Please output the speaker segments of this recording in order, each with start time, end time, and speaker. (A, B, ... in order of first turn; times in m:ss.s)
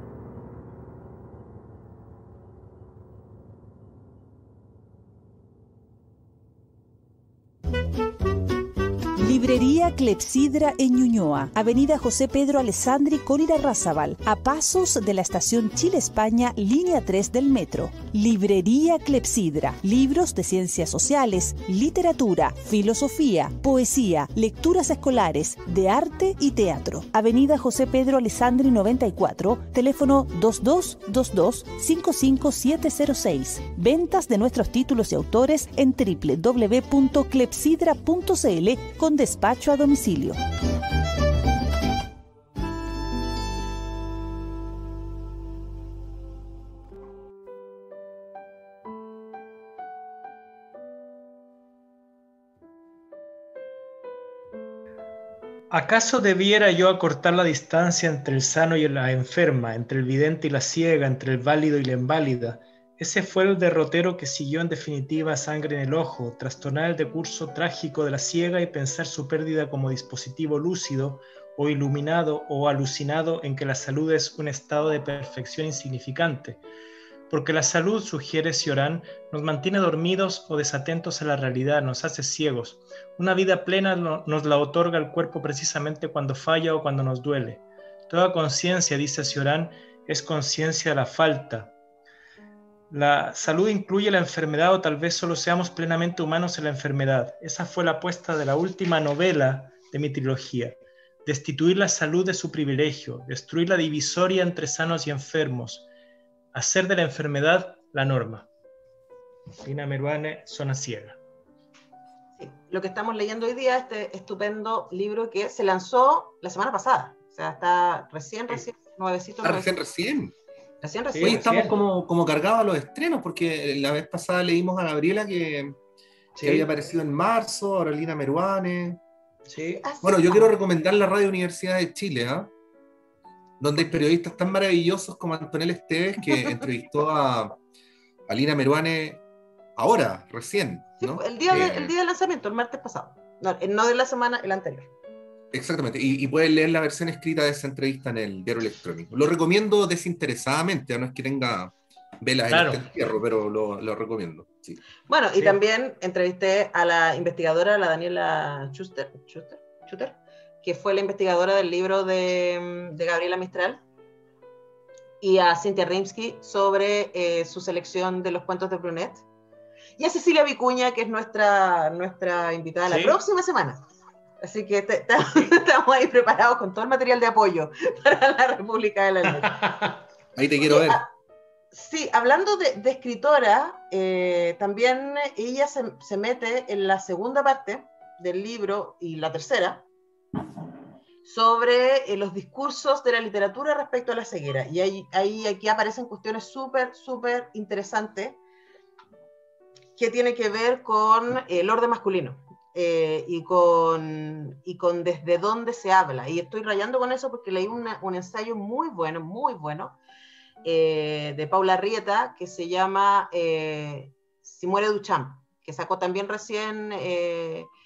0:09.2-0:40.4 A
0:55.7-1:16.6 B
1:17.3-1:31.7 B
1:32.9-1:45.9 B
1:46.5-1:48.5 B
1:49.6-1:51.2 B
1:52.4-1:59.7 C
1:59.4-2:00.3 D
2:00.8-2:01.4 C
2:01.1-2:01.8 B
2:01.2-2:05.8 D
2:06.4-2:06.7 B
2:06.4-2:09.0 D
2:09.5-2:09.8 B
2:09.8-2:10.5 C
2:10.0-2:12.5 D
2:13.6-2:17.6 D
2:18.3-2:19.2 D
2:19.8-2:21.9 D
2:21.0-2:24.9 C
2:25.5-2:34.8 D
2:32.5-2:32.8 B
2:35.1-2:43.8 C
2:45.2-2:49.2 C
2:50.0-2:53.8 C
2:52.9-2:53.2 B
2:54.4-2:59.6 C
2:55.2-2:55.5 B
2:59.4-3:00.0 B
3:00.4-3:01.0 D
3:00.6-3:01.1 C
3:01.7-3:09.9 C
3:11.2-3:18.4 C
3:20.0-3:30.0 C
3:30.6-3:37.7 C